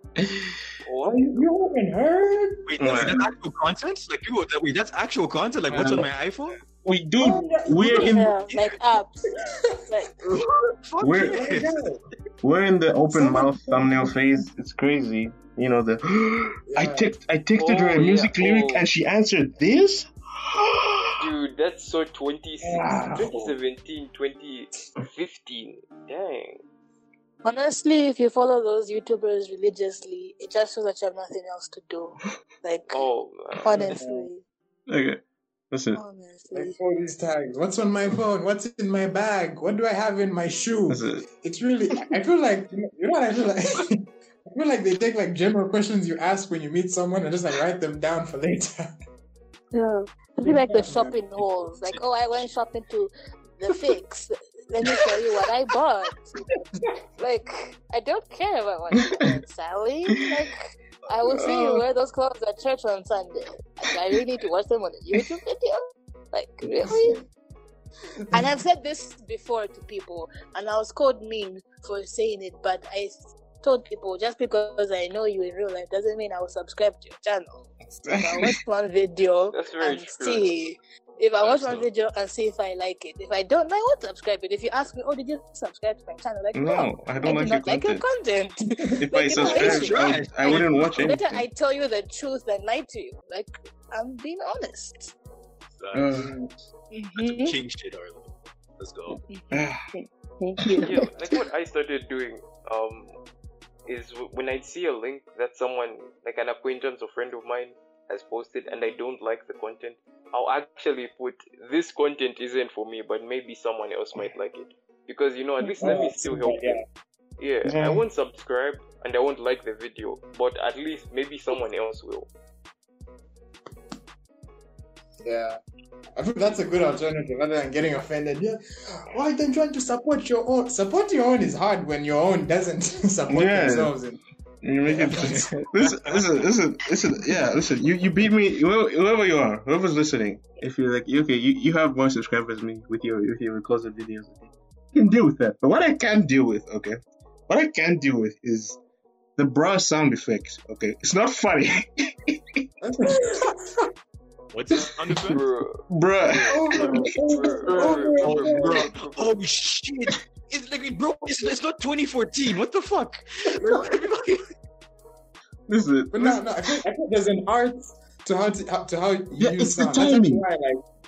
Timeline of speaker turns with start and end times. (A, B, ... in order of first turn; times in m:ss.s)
0:00.2-0:00.6 A
0:00.8-0:01.5 B
0:01.1-0:03.2 C
0:02.7-0:06.6 D
0:02.8-0:03.3 A
0:05.7-0:06.1 A
0:06.8-0:08.3 A
0:07.2-0:08.2 C
0:07.8-0:09.4 E
0:08.5-0:08.7 D
0:09.9-0:10.1 E
0:10.3-0:11.9 D
0:11.0-0:11.5 A
0:11.3-0:12.0 C
0:12.4-0:21.1 A
0:13.1-0:14.1 C
0:16.7-0:17.1 C
0:17.6-0:18.9 B
0:21.2-0:26.6 B
0:22.6-0:23.6 C
0:27.4-0:33.0 E
0:32.9-0:34.0 B
0:33.6-0:34.4 E
0:33.7-0:34.3 C
0:34.9-0:36.0 A
0:35.9-0:36.8 E
0:36.5-0:48.9 C
0:40.9-0:41.2 A
0:49.7-0:56.3 E
0:50.4-0:51.2 C
0:57.2-1:07.2 E
1:01.2-1:01.8 A
1:06.7-1:06.9 A
1:08.3-1:35.1 E
1:18.1-1:18.6 A
1:19.5-1:20.5 B
1:21.4-1:21.9 D
1:26.5-1:28.0 A
1:29.0-1:31.4 A
1:29.4-1:31.2 D
1:35.8-1:36.2 D
1:35.9-1:36.4 A
1:36.9-1:37.6 E
1:37.2-1:39.2 D
1:39.3-1:41.1 E
1:39.5-1:39.9 A
1:40.8-1:43.2 B
1:43.9-1:56.8 B
1:55.8-1:56.8 C
1:57.4-2:02.3 B
1:57.6-1:58.0 A
2:05.2-2:05.6 C
2:06.2-2:14.2 C
2:13.3-2:13.9 A
2:14.6-2:27.0 A
2:15.0-2:15.5 C
2:27.5-2:28.8 A
2:29.4-2:32.6 A
2:32.8-2:33.8 C
2:34.5-2:35.5 D
2:35.3-2:39.4 B
2:35.9-2:37.2 A
2:36.5-2:38.9 C
2:37.8-2:44.5 D
2:45.7-2:46.8 A
2:46.1-2:50.8 C
2:49.4-2:50.4 A